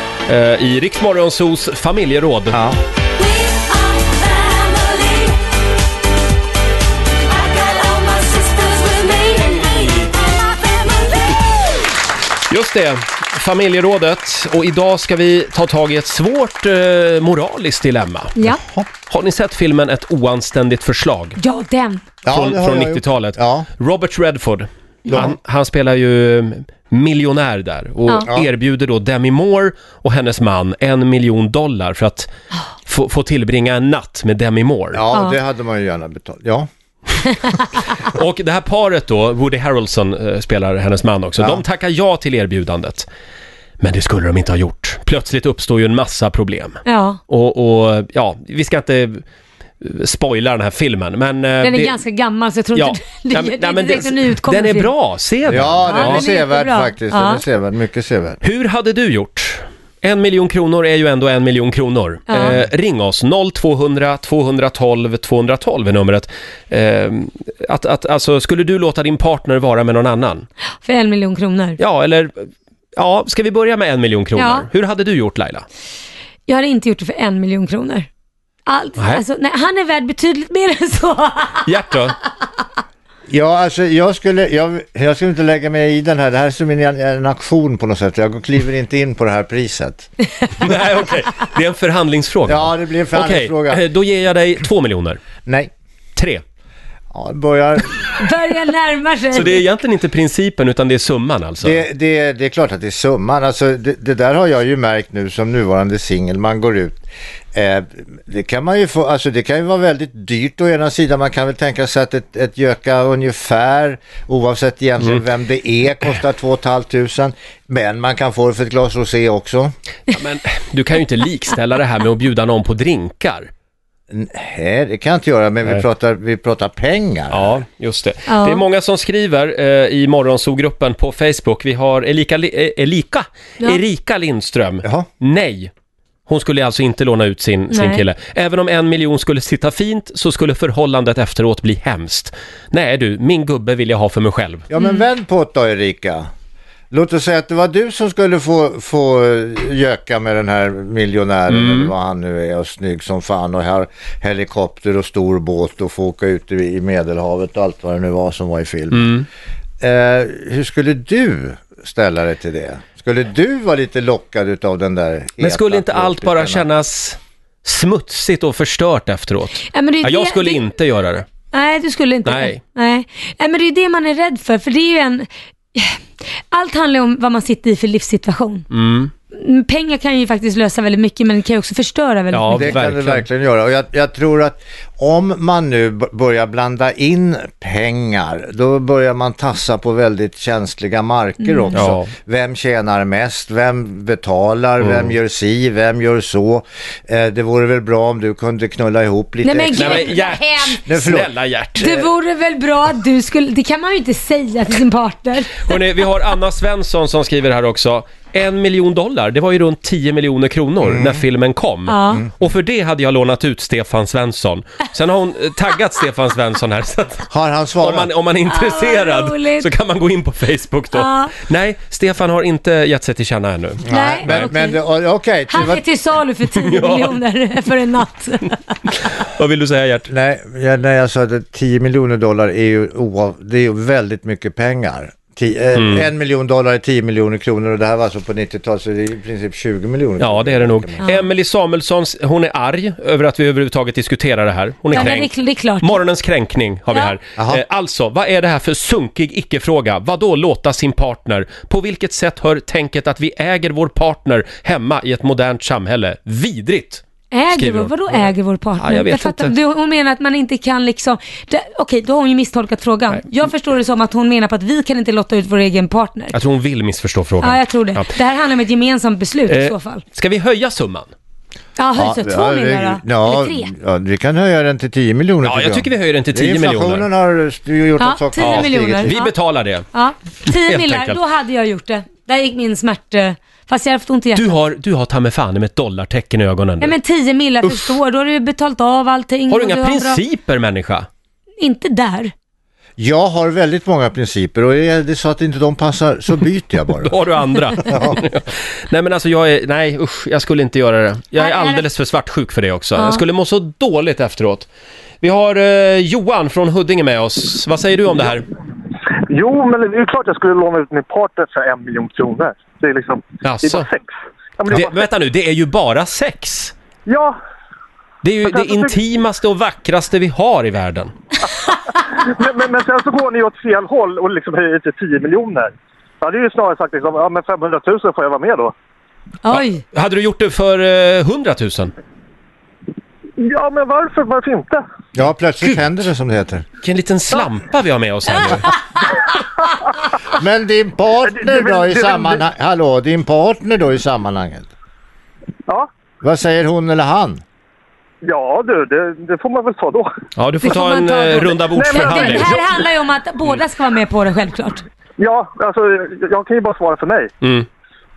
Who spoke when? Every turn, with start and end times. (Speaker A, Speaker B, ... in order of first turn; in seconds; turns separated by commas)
Speaker A: 0.3-2.6, Speaker B: 2.5-2.8, Speaker C: 3.4-5.3, Speaker C: 7.4-11.4, Speaker A: 12.5-18.4, Speaker C: 18.4-18.6, Speaker B: 18.5-18.9, Speaker A: 19.1-21.4, Speaker C: 21.4-22.0, Speaker B: 22.2-23.7, Speaker A: 22.3-32.3, Speaker B: 25.1-25.4, Speaker A: 32.9-35.0, Speaker B: 34.9-36.7, Speaker A: 38.0-43.1, Speaker A: 43.8-49.2, Speaker C: 46.9-47.2, Speaker A: 49.8-52.0, Speaker C: 51.6-54.9, Speaker A: 52.8-56.2, Speaker B: 55.5-58.4, Speaker C: 55.9-57.4, Speaker A: 58.4-70.5, Speaker C: 62.3-62.6, Speaker C: 70.8-71.8, Speaker A: 71.8-75.7, Speaker C: 74.4-74.7, Speaker C: 76.5-78.1, Speaker C: 78.7-81.7, Speaker A: 79.0-79.2, Speaker A: 81.6-82.2, Speaker B: 83.3-90.1, Speaker A: 90.6-95.2, Speaker B: 92.5-93.8, Speaker B: 95.5-95.7, Speaker A: 96.2-96.4, Speaker B: 97.1-98.3, Speaker C: 98.2-99.6, Speaker A: 99.3-101.8, Speaker B: 101.6-119.7, Speaker A: 120.1-123.5, Speaker B: 124.1-127.6, Speaker A: 127.3-135.7, Speaker C: 128.3-128.6, Speaker A: 136.3-144.7, Speaker C: 137.7-138.0, Speaker B: 144.7-146.3, Speaker B: 146.9-159.2, Speaker A: 151.5-151.9, Speaker A: 158.9-159.3, Speaker B: 159.8-166.7, Speaker A: 165.4-171.3, Speaker C: 169.7-170.6, Speaker C: 171.5-176.0, Speaker A: 172.2-172.6, Speaker C: 176.5-178.7, Speaker A: 178.7-179.1, Speaker C: 179.3-182.8, Speaker A: 182.3-183.3, Speaker B: 182.5-201.3, Speaker C: 191.4-191.8, Speaker A: 191.7-192.1, Speaker A: 194.8-195.1, Speaker C: 199.4-200.8, Speaker A: 199.7-202.0, Speaker C: 201.8-205.8, Speaker A: 205.7-217.3, Speaker B: 210.8-211.2, Speaker C: 211.9-212.2, Speaker B: 217.3-218.1, Speaker A: 217.8-224.5, Speaker C: 218.5-219.7, Speaker C: 220.9-221.3, Speaker C: 223.9-224.8, Speaker B: 223.9-225.8, Speaker C: 225.5-228.6, Speaker A: 226.7-227.2, Speaker A: 229.0-230.1, Speaker B: 230.1-241.1, Speaker A: 235.8-236.1, Speaker A: 240.2-259.5, Speaker C: 244.9-246.0, Speaker B: 247.4-247.6, Speaker C: 257.3-266.4, Speaker A: 266.3-268.1, Speaker C: 267.4-270.0, Speaker A: 269.5-271.1, Speaker C: 271.8-273.7, Speaker B: 272.0-279.2, Speaker A: 275.4-277.1, Speaker C: 278.0-279.3, Speaker A: 278.4-279.9, Speaker C: 279.9-284.6, Speaker A: 280.5-281.2, Speaker A: 284.4-286.9, Speaker C: 286.8-290.2, Speaker A: 287.6-288.0, Speaker A: 289.5-291.1, Speaker C: 291.6-292.3, Speaker B: 293.0-297.2, Speaker A: 297.0-304.7, Speaker B: 297.8-298.2, Speaker C: 301.4-301.9, Speaker C: 303.0-303.2, Speaker A: 305.2-308.4, Speaker D: 309.3-315.1, Speaker A: 313.4-313.9, Speaker A: 314.7-316.8, Speaker D: 317.1-317.4, Speaker A: 318.2-321.1, Speaker D: 318.4-319.0, Speaker D: 321.9-328.7, Speaker C: 329.4-329.8, Speaker A: 329.5-331.9, Speaker D: 333.4-334.8, Speaker B: 335.1-336.6, Speaker A: 336.8-338.8, Speaker B: 340.3-344.7, Speaker D: 341.2-342.4, Speaker B: 346.2-347.4, Speaker D: 348.2-350.1, Speaker A: 350.4-352.6, Speaker C: 350.6-354.8, Speaker D: 351.7-352.8, Speaker D: 355.2-357.3, Speaker A: 357.4-357.7